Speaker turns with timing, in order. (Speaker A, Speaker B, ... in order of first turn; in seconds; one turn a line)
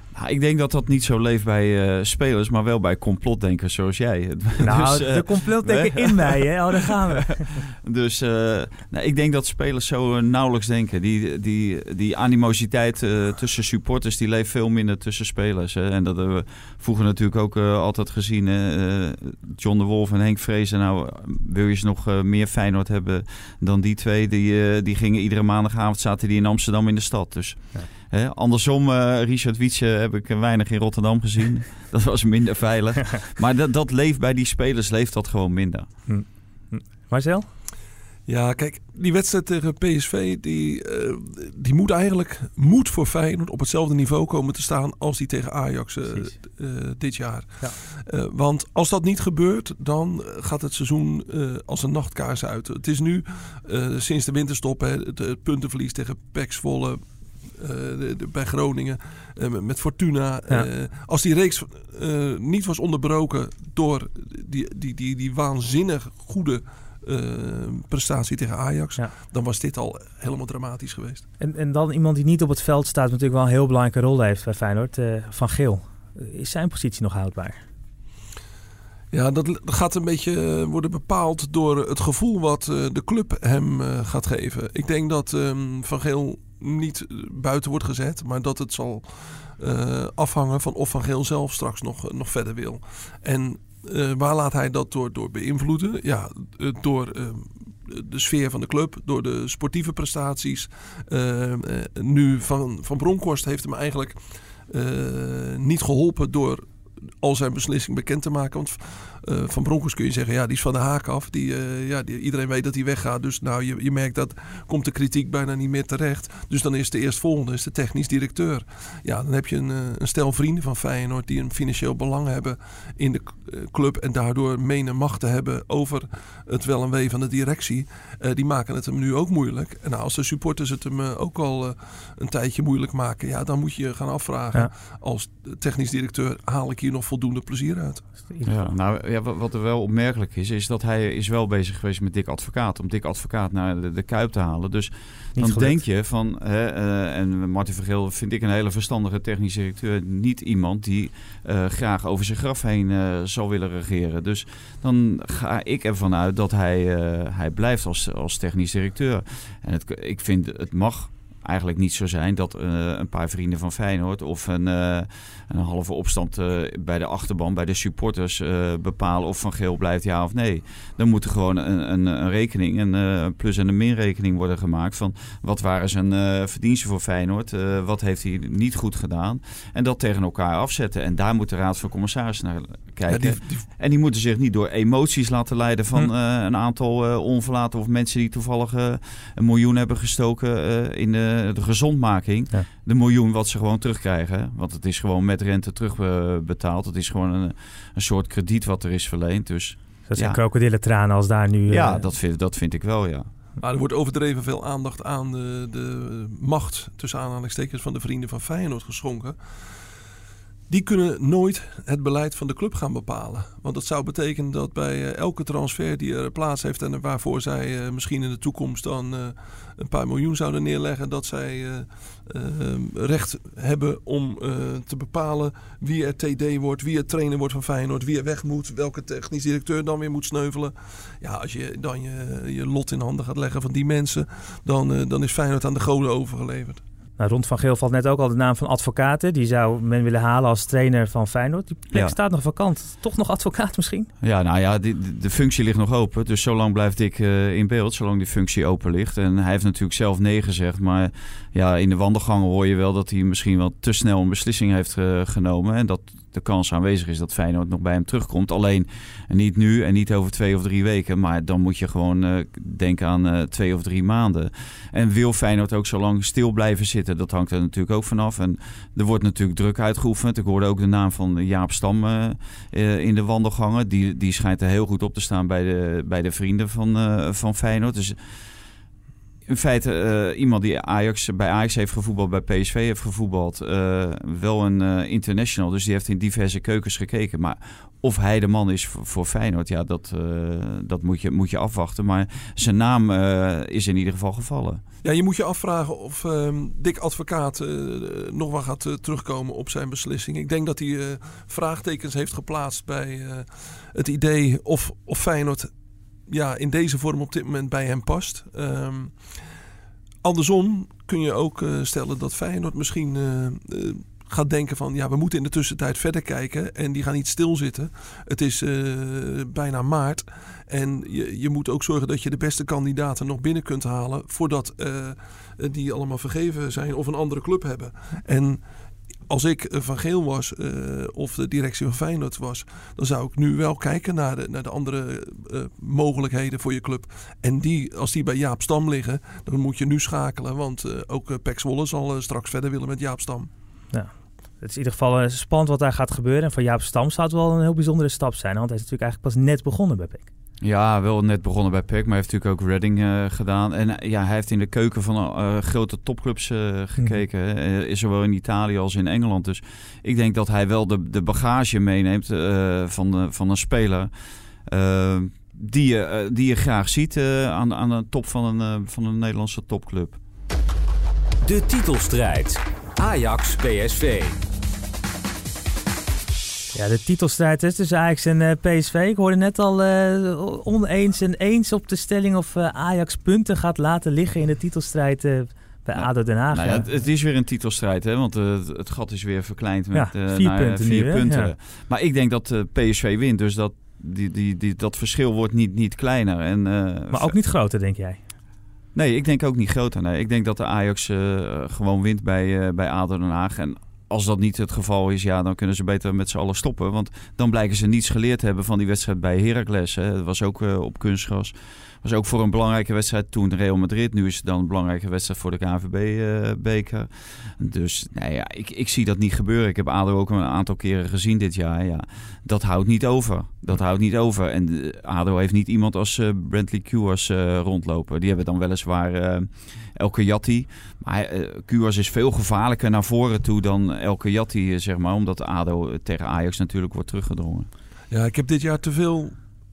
Speaker A: 0.1-35.9
Speaker B: 4.6-7.7
Speaker B: 36.1-37.5
Speaker C: 38.2-71.2
Speaker B: 71.4-77.6
Speaker C: 79.1-104.2
Speaker C: 104.7-106.6
Speaker C: 107.2-138.1
Speaker B: 138.3-138.7
Speaker A: 138.4-200.4
Speaker B: 145.3-145.8
Speaker C: 183.1-183.7
Speaker B: 200.1-202.1
Speaker A: 201.7-203.3
Speaker C: 203.6-209.4
Speaker C: 210.7-236.8
Speaker B: 237.2-244.1
Speaker A: 244.2-278.2
Speaker A: 279.5-294.8
Speaker C: 295.0-305.7
Speaker C: 306.3-309.2
Speaker C: 310.2-328.6
Speaker C: 329.3-343.5
Speaker B: 343.9-350.3
Speaker A: 350.6-364.1
Speaker A: 364.6-370.2
Speaker D: 371.4-374.4
Speaker B: 376.7-386.9
Speaker A: 386.0-397.3
Speaker B: 389.9-391.5
Speaker B: 397.1-398.2
Speaker A: 398.9-437.7
Speaker C: 438.1-439.4